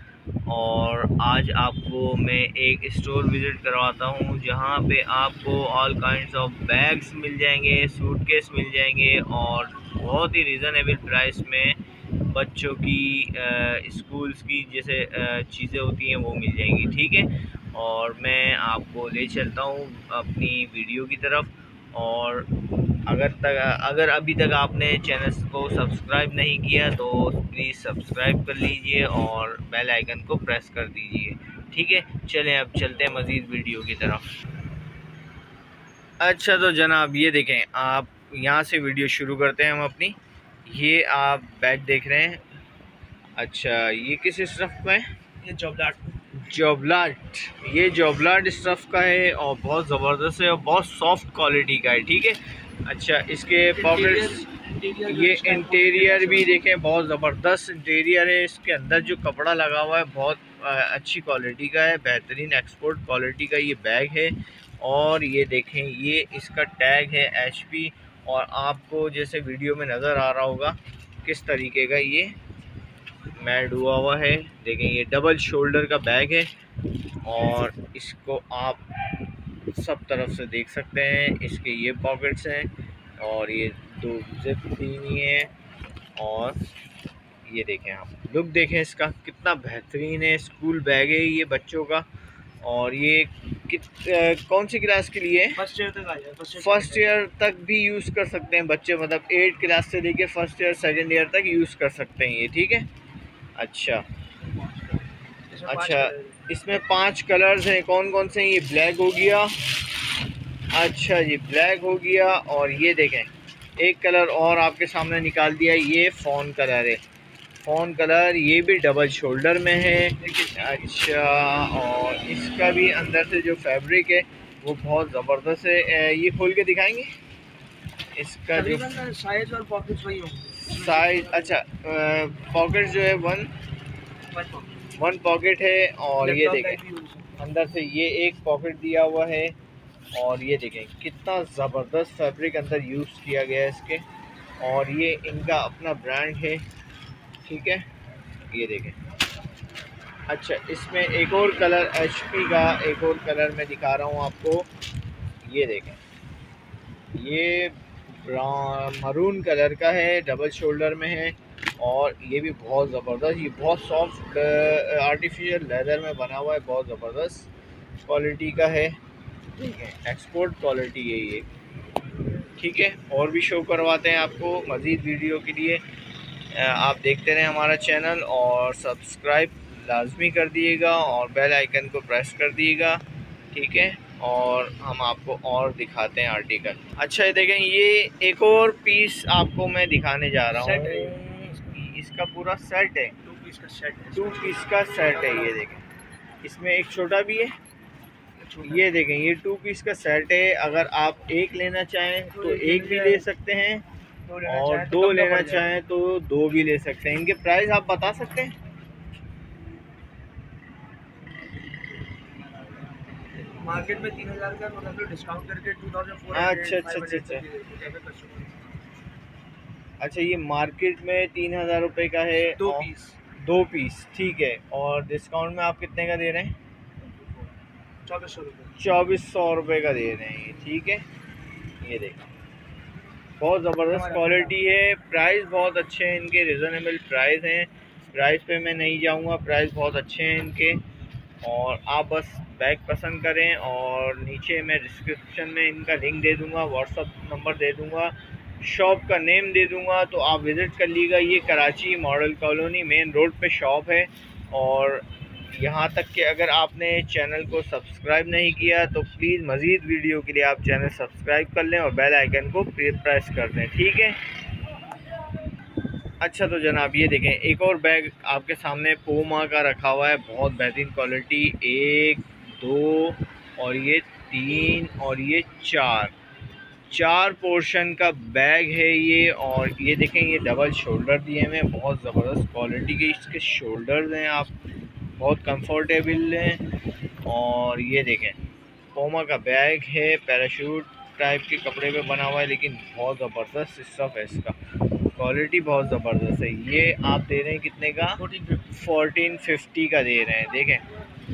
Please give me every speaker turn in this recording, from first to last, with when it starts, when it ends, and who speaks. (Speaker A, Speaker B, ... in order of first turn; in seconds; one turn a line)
Speaker A: 0.5-11.8
Speaker A: 12.3-22.5
Speaker A: 23.1-34.3
Speaker A: 36.2-42.4
Speaker A: 43.4-45.0
Speaker B: 45.4-46.2
Speaker A: 46.4-54.5
Speaker B: 53.8-56.6
Speaker A: 55.1-72.4
Speaker A: 73.4-76.5
Speaker A: 77.2-78.8
Speaker A: 79.7-85.5
Speaker A: 86.2-86.6
Speaker A: 87.5-92.1
Speaker A: 92.6-95.6
Speaker B: 95.6-97.2
Speaker A: 96.6-102.9
Speaker A: 103.6-104.0
Speaker B: 105.5-106.4
Speaker A: 105.7-109.7
Speaker A: 110.7-117.0
Speaker A: 117.6-127.1
Speaker B: 120.2-120.9
Speaker A: 128.2-128.9
Speaker B: 128.5-131.5
Speaker A: 130.6-133.5
Speaker B: 134.3-134.8
Speaker A: 134.9-136.8
Speaker B: 136.2-137.4
Speaker A: 137.4-139.6
Speaker A: 140.1-144.0
Speaker A: 144.6-146.6
Speaker A: 147.4-147.8
Speaker A: 148.5-149.0
Speaker A: 150.3-154.7
Speaker A: 155.4-156.0
Speaker A: 157.1-167.5
Speaker A: 168.1-169.0
Speaker A: 169.5-171.4
Speaker A: 172.6-175.8
Speaker A: 176.5-193.1
Speaker B: 190.5-191.2
Speaker B: 193.2-195.6
Speaker A: 194.2-195.8
Speaker A: 196.4-197.5
Speaker B: 198.4-198.9
Speaker A: 198.6-203.8
Speaker B: 202.2-203.2
Speaker B: 204.2-205.7
Speaker A: 204.4-208.5
Speaker B: 213.5-218.7
Speaker A: 216.3-217.4
Speaker A: 220.0-226.6
Speaker B: 222.5-223.2
Speaker B: 228.0-228.7
Speaker A: 228.8-231.1
Speaker A: 231.8-232.2
Speaker A: 233.4-240.8
Speaker B: 233.9-234.6
Speaker A: 241.4-264.2
Speaker A: 266.2-276.1
Speaker A: 276.9-284.5
Speaker A: 285.2-286.6
Speaker A: 287.2-288.4
Speaker A: 288.9-294.6
Speaker A: 295.1-300.8
Speaker B: 298.2-298.7